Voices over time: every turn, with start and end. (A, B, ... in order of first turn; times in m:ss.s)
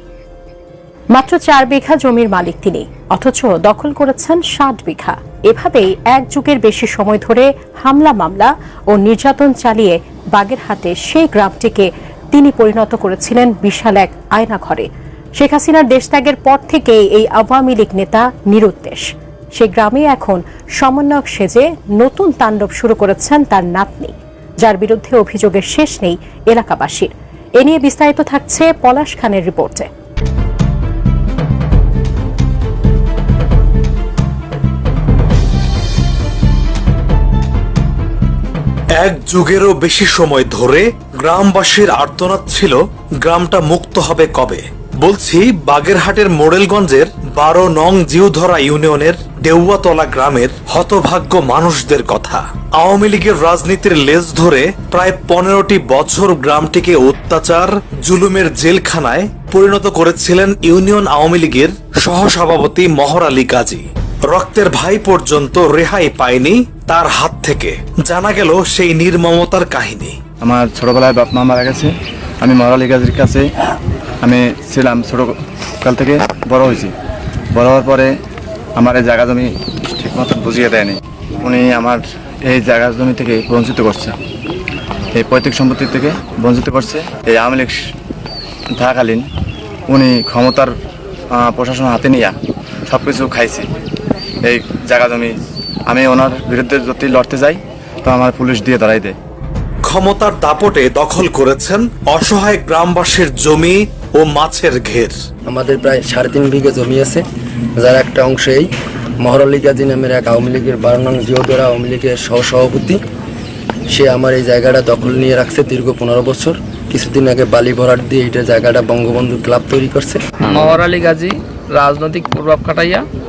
0:01.1-0:29.9 A
0:39.0-1:10.2 B
1:10.4-1:13.5 C
1:14.2-1:16.9 C
1:17.5-1:18.1 C
1:18.8-1:24.2 C
1:25.1-1:27.8 C
1:28.8-1:29.2 C
1:29.9-1:30.7 C
1:31.3-1:32.4 C
1:32.9-1:33.7 C
1:34.4-1:35.4 C
1:35.9-1:39.2 C
1:39.9-1:45.1 B
1:45.5-1:47.2 D
1:47.8-1:53.0 D
1:53.9-2:00.2 D
2:00.4-2:03.0 E